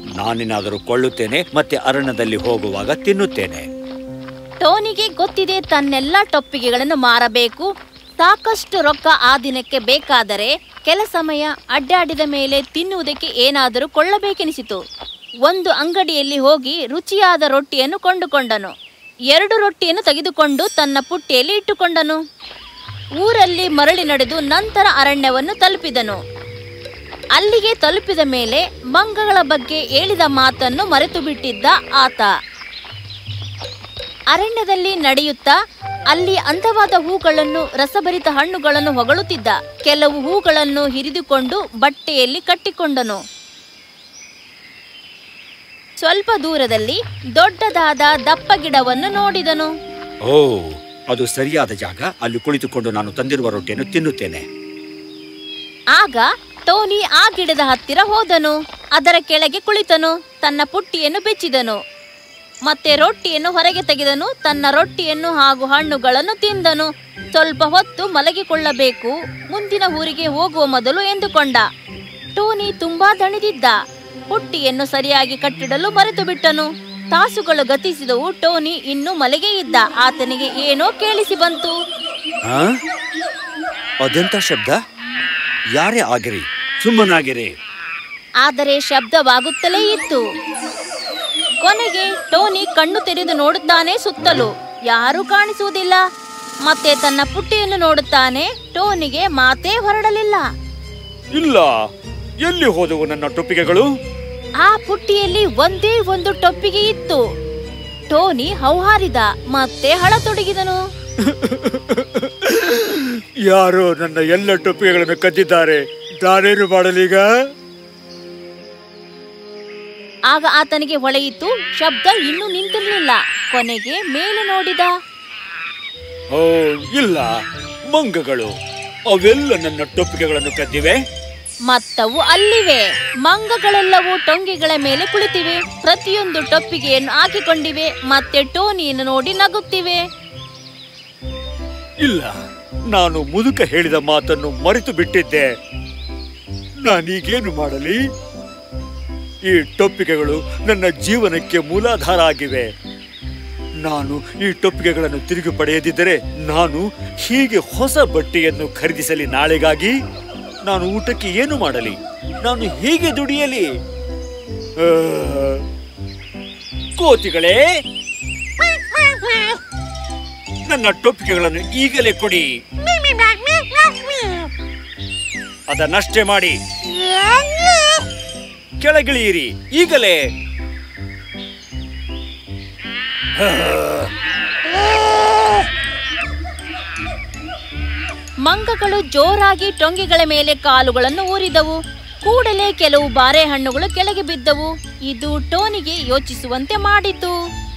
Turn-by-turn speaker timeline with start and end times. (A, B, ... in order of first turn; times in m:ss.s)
0:00.2-0:03.6 A
0:04.6-0:07.7 B
0:08.2-0:14.8 B
0:15.5-0:18.7 B
0:19.3-0:22.2 B
0:23.2-0:26.2 B
0:27.4-0:32.3 B
0:34.3-0:35.6 B
0:36.1-0:43.2 B
0:46.0-0:49.7 B
0:50.3-0:54.4 A
0:55.9-1:01.8 B
1:02.7-1:11.7 B
1:12.4-1:13.8 B
1:14.3-1:21.8 B
1:22.5-1:22.7 A
1:24.0-1:24.8 A
1:25.8-1:27.5 A
1:28.4-1:30.2 B
1:31.6-1:36.0 B
1:36.7-1:40.4 B
1:41.4-1:41.7 A
1:42.4-1:43.9 A
1:44.6-1:47.2 B
1:48.1-1:50.8 B
1:51.2-1:57.3 A
2:00.3-2:04.9 B
2:06.4-2:07.3 A
2:07.9-2:08.5 A
2:09.1-2:11.0 A
2:11.7-2:20.0 B
2:22.0-2:22.4 A
2:22.9-2:25.5 A
2:26.8-2:28.0 A
2:29.5-2:32.7 A
2:33.8-2:39.9 A
2:40.7-2:43.7 A
2:44.8-2:45.6 A
2:47.0-2:47.6 A
2:49.1-2:49.6 A
2:50.7-2:52.5 A
2:55.7-2:56.6 A
2:58.8-3:00.2 A
3:03.4-3:04.1 A
3:08.4-3:17.4 B